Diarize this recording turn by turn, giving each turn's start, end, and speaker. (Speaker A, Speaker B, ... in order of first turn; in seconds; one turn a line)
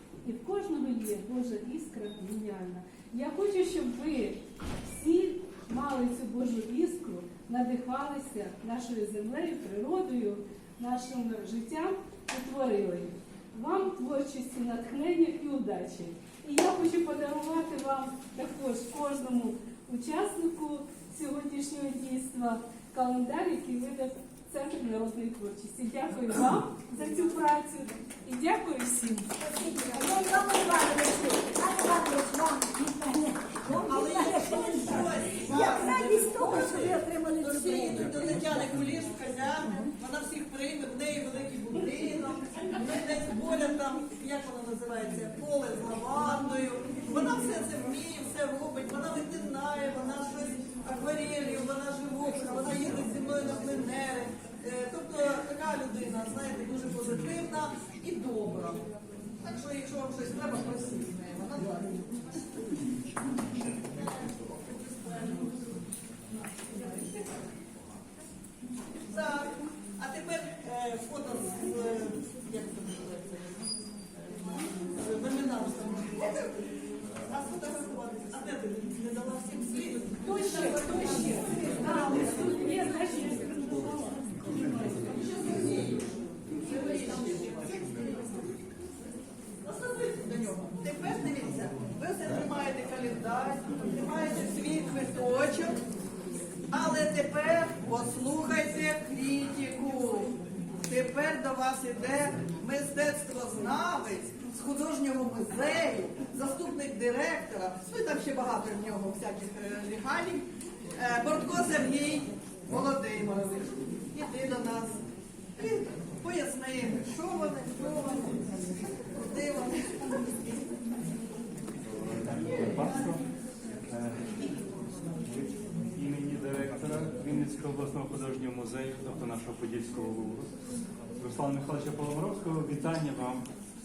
Speaker A: 0.2-29.3
Speaker B: 29.4-38.4
Speaker C: 33.8-58.8
Speaker C: 59.4-62.4
Speaker C: 63.9-67.5
Speaker C: 69.1-76.7
Speaker C: 77.3-82.7
Speaker A: 80.2-85.1
Speaker C: 85.1-88.3
Speaker C: 89.6-95.8
Speaker C: 96.7-100.3
Speaker C: 100.8-110.4
Speaker C: 111.0-115.0
Speaker C: 115.6-120.5
Speaker D: 121.9-123.3
Speaker C: 122.4-123.1
Speaker D: 123.9-124.6
Speaker D: 125.2-130.5
Speaker D: 131.2-133.5